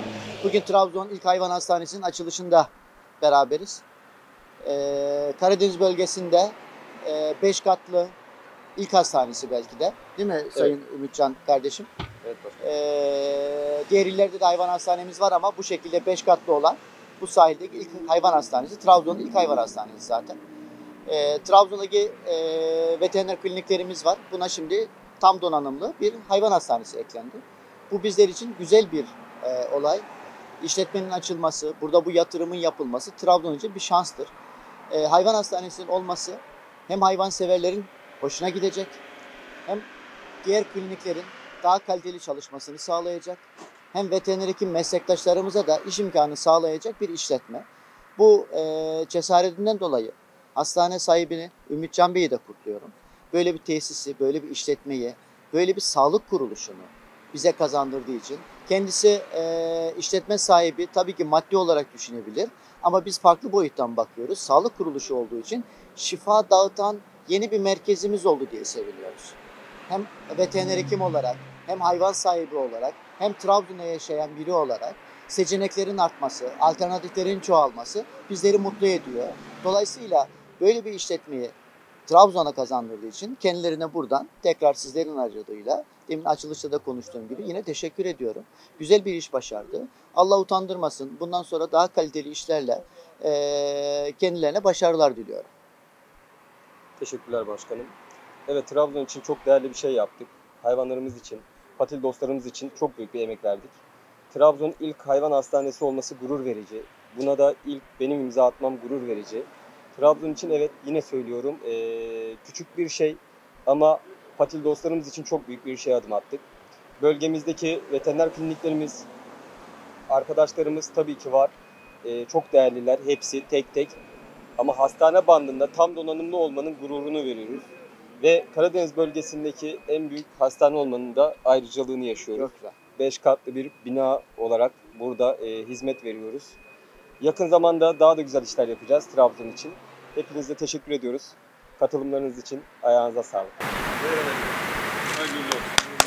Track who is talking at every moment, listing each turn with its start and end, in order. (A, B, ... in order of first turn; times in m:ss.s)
0:00.4-0:02.7 A
0:03.2-0:03.8 A
0:04.6-0:08.1 A
0:08.8-0:11.9 A
0:12.2-0:12.6 B
0:12.6-0:20.4 A
0:21.1-0:30.0 A
0:30.6-0:34.3 A
0:34.9-0:39.0 A
0:40.4-0:47.6 A
0:48.2-1:09.4 A
1:09.9-1:21.5 A
1:22.1-1:35.5 A
1:37.0-1:37.9 B
1:38.5-1:43.8 B
1:44.3-1:56.4 B
1:57.0-1:59.1 B
2:00.1-2:01.5 B
2:02.0-2:03.9 B
2:04.6-2:07.6 B
2:08.2-2:16.6 B
2:12.3-2:12.7 A
2:17.2-2:24.5 B
2:25.1-2:25.6 B